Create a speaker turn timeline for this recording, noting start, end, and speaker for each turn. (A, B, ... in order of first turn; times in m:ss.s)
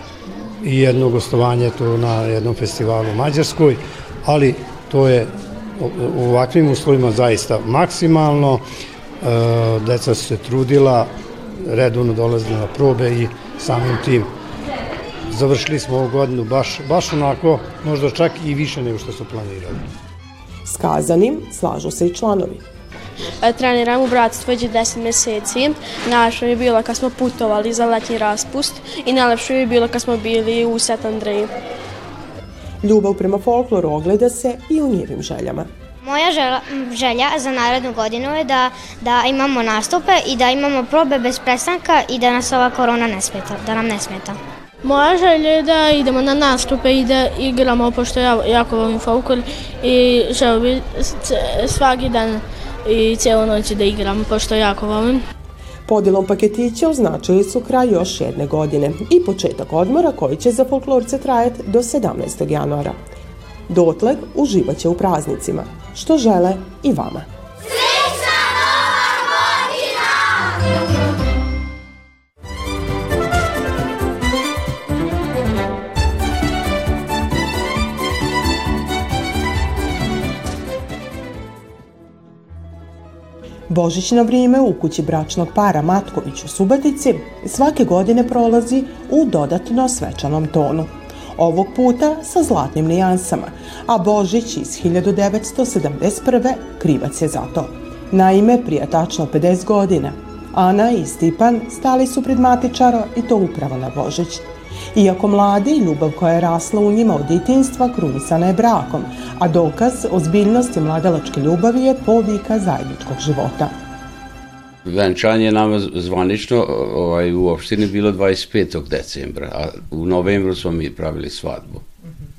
0:00.6-0:08.6 A
0:09.2-0:11.1 A
0:11.6-0:14.3 A
0:15.3-0:19.8 A
0:20.7-0:22.6 B
0:23.4-0:31.5 C
0:32.8-0:35.7 B
0:36.0-0:44.4 D
0:44.8-0:55.2 C
0:55.9-1:03.0 B
1:03.7-1:07.3 B
1:23.7-1:53.7 B
1:54.8-2:01.8 E